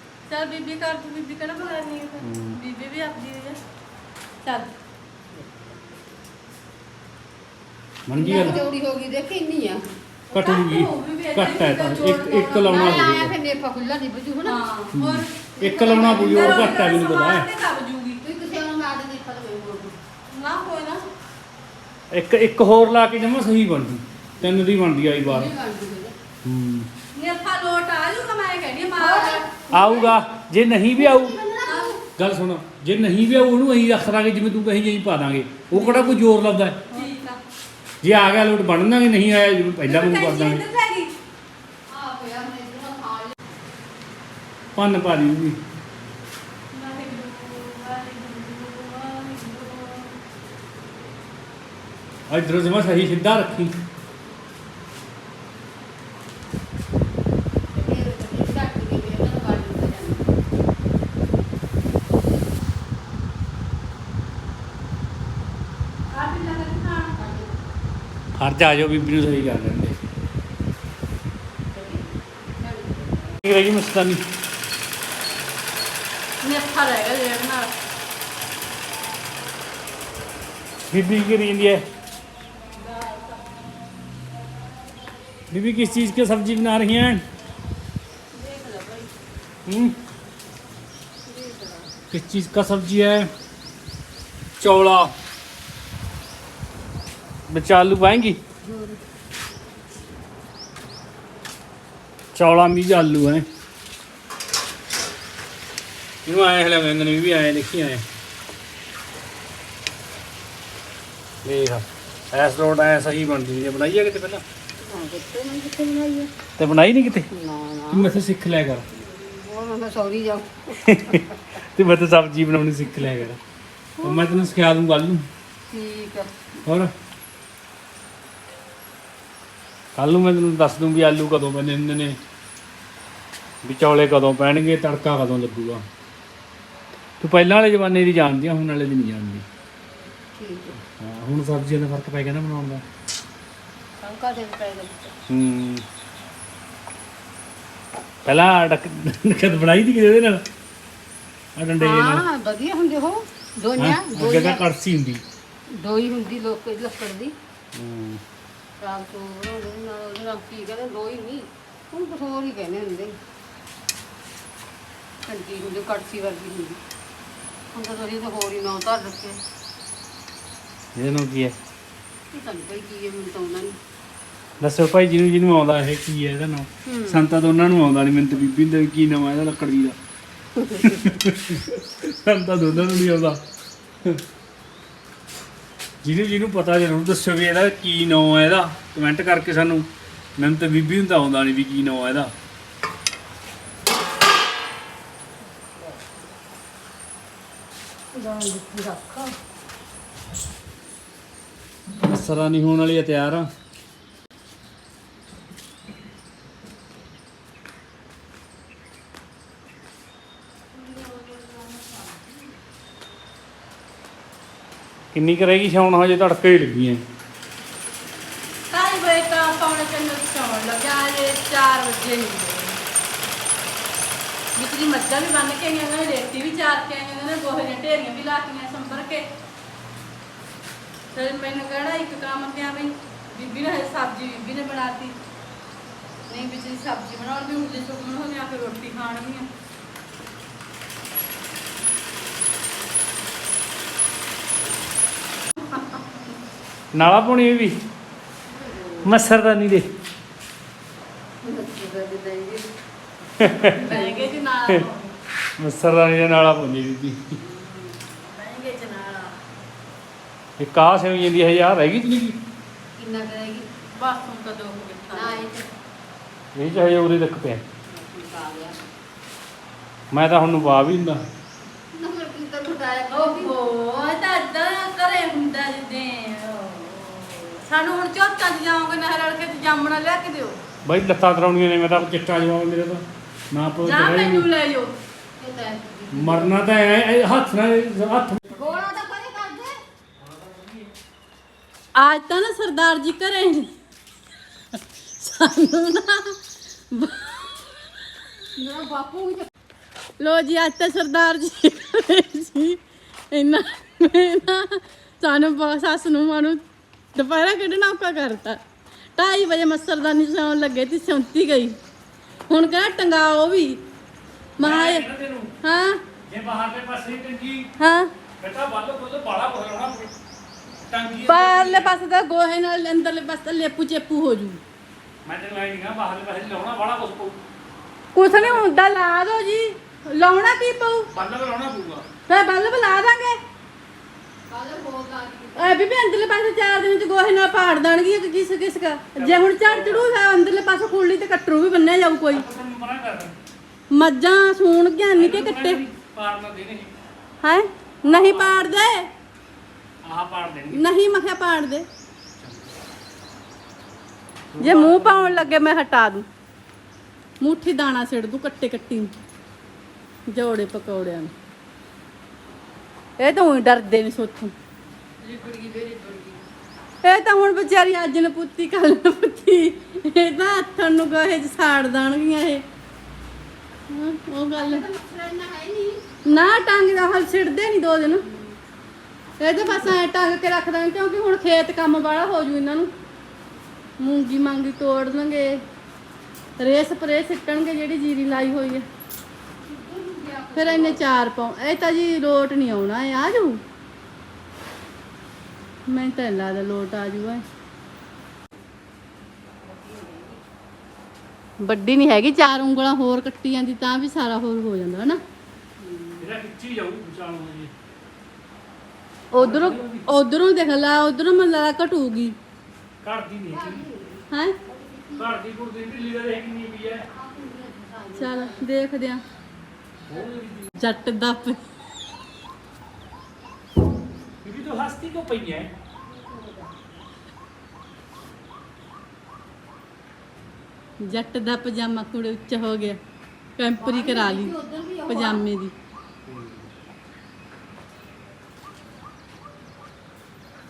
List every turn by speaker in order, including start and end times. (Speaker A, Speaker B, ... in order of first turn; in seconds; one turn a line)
Speaker A: 0.3-3.6
Speaker B: 2.2-2.6
Speaker A: 4.4-4.7
Speaker B: 8.1-8.6
Speaker C: 8.2-9.8
Speaker A: 8.2-8.6
Speaker A: 10.3-13.2
Speaker B: 10.3-13.3
Speaker C: 12.7-14.6
Speaker A: 14.4-15.3
Speaker B: 14.9-17.5
Speaker C: 15.6-16.8
Speaker A: 16.0-18.2
Speaker C: 18.2-19.9
Speaker A: 20.3-21.1
Speaker B: 22.1-25.5
Speaker C: 25.2-26.1
Speaker B: 26.4-26.9
Speaker A: 27.1-29.5
Speaker C: 29.0-30.1
Speaker B: 29.7-31.4
Speaker C: 30.9-32.0
Speaker A: 31.6-32.0
Speaker B: 32.2-37.0
Speaker A: 35.7-36.2
Speaker A: 36.9-37.4
Speaker B: 38.0-40.6
Speaker A: 39.9-41.1
Speaker C: 41.9-43.4
Speaker B: 44.8-45.6
Speaker A: 46.7-50.1
Speaker B: 52.3-53.7
Speaker C: 57.7-60.3
Speaker A: 66.1-67.2
Speaker C: 67.2-67.5
Speaker B: 68.4-70.0
Speaker C: 71.7-72.0
Speaker C: 72.6-73.4
Speaker B: 73.4-74.2
Speaker A: 76.4-77.8
Speaker B: 80.9-81.8
Speaker A: 82.8-83.5
Speaker B: 85.5-87.2
Speaker A: 88.4-89.1
Speaker B: 89.7-90.0
Speaker C: 91.3-91.9
Speaker B: 92.1-93.3
Speaker B: 94.6-95.1
Speaker B: 97.5-98.4
Speaker C: 98.6-99.0
Speaker B: 102.3-103.5
Speaker B: 106.3-108.0
Speaker B: 111.4-114.4
Speaker C: 114.8-116.3
Speaker B: 116.6-117.3
Speaker C: 117.3-118.1
Speaker B: 117.9-118.8
Speaker C: 118.9-121.3
Speaker B: 120.8-123.4
Speaker B: 124.0-125.3
Speaker C: 125.7-126.3
Speaker B: 130.0-132.2
Speaker B: 133.6-135.8
Speaker B: 137.2-139.4
Speaker C: 140.4-140.8
Speaker B: 141.0-142.8
Speaker C: 144.0-145.1
Speaker B: 145.3-145.8
Speaker B: 148.2-150.4
Speaker B: 151.6-152.2
Speaker C: 151.8-154.6
Speaker B: 153.8-155.2
Speaker C: 155.7-157.3
Speaker B: 157.8-158.2
Speaker C: 158.8-163.2
Speaker C: 165.3-166.8
Speaker C: 167.7-169.4
Speaker B: 171.0-171.5
Speaker C: 172.3-173.8
Speaker B: 174.6-180.0
Speaker C: 176.9-177.2
Speaker B: 180.8-183.4
Speaker B: 186.0-192.3
Speaker C: 198.1-199.4
Speaker B: 202.0-203.5
Speaker C: 210.8-212.3
Speaker B: 215.1-217.0
Speaker A: 218.7-222.8
Speaker A: 224.6-229.3
Speaker A: 231.1-235.2
Speaker A: 236.3-239.5
Speaker A: 245.7-246.0
Speaker B: 246.9-247.7
Speaker C: 248.5-249.2
Speaker B: 249.0-249.8
Speaker C: 251.4-252.7
Speaker B: 253.4-253.8
Speaker C: 253.4-254.3
Speaker A: 253.6-255.1
Speaker B: 255.6-257.4
Speaker C: 257.4-257.8
Speaker A: 258.1-259.4
Speaker B: 260.6-262.4
Speaker C: 263.0-263.7
Speaker A: 263.9-265.4
Speaker C: 265.1-265.7
Speaker B: 266.6-267.6
Speaker C: 267.9-268.8
Speaker B: 270.1-271.2
Speaker C: 271.9-273.5
Speaker A: 273.1-280.6
Speaker B: 280.9-284.5
Speaker A: 283.8-284.9
Speaker C: 285.4-286.6
Speaker B: 286.1-288.6
Speaker C: 288.5-289.8
Speaker B: 290.2-290.9
Speaker A: 292.0-293.7
Speaker A: 295.2-296.4
Speaker A: 296.9-297.7
Speaker C: 298.6-299.5
Speaker A: 300.2-306.6
Speaker A: 307.1-308.6
Speaker A: 309.2-311.8
Speaker A: 312.5-313.8
Speaker A: 314.6-315.1
Speaker B: 314.6-315.5
Speaker A: 315.6-316.0
Speaker B: 316.3-317.7
Speaker A: 317.8-318.1
Speaker B: 318.4-320.1
Speaker B: 320.9-321.9
Speaker A: 321.3-324.6
Speaker B: 325.2-327.4
Speaker A: 328.1-331.1
Speaker B: 328.2-328.7
Speaker B: 331.1-332.0
Speaker A: 332.3-333.4
Speaker C: 334.5-335.8
Speaker A: 335.6-342.4
Speaker B: 339.2-340.1
Speaker B: 342.3-343.3
Speaker A: 343.9-345.8
Speaker B: 345.1-346.9
Speaker A: 347.4-349.1
Speaker B: 348.1-348.7
Speaker B: 350.0-350.9
Speaker A: 350.7-351.9
Speaker B: 352.4-352.7
Speaker B: 354.5-355.5
Speaker A: 354.6-356.2
Speaker A: 357.4-359.1
Speaker A: 360.3-361.3
Speaker A: 363.2-364.5
Speaker C: 365.2-366.4
Speaker A: 367.0-372.6
Speaker A: 373.9-374.9
Speaker C: 374.5-376.1
Speaker A: 376.3-378.3
Speaker A: 379.4-382.9
Speaker A: 384.0-385.6
Speaker A: 386.6-388.9
Speaker C: 389.6-391.1
Speaker A: 390.6-393.6
Speaker A: 395.9-397.4
Speaker C: 399.5-400.4
Speaker A: 401.6-405.2
Speaker C: 405.8-406.3
Speaker B: 406.2-407.7
Speaker A: 409.3-412.4
Speaker B: 409.4-410.1
Speaker B: 413.0-413.9
Speaker C: 413.5-415.3
Speaker A: 414.3-414.6
Speaker B: 415.1-417.1
Speaker C: 417.1-418.6
Speaker A: 418.1-419.2
Speaker B: 420.1-420.8
Speaker A: 420.8-421.6
Speaker B: 424.4-425.7
Speaker C: 426.0-426.8
Speaker A: 431.0-433.0
Speaker A: 433.6-434.6
Speaker C: 433.8-435.4
Speaker A: 435.1-435.7
Speaker B: 436.3-436.7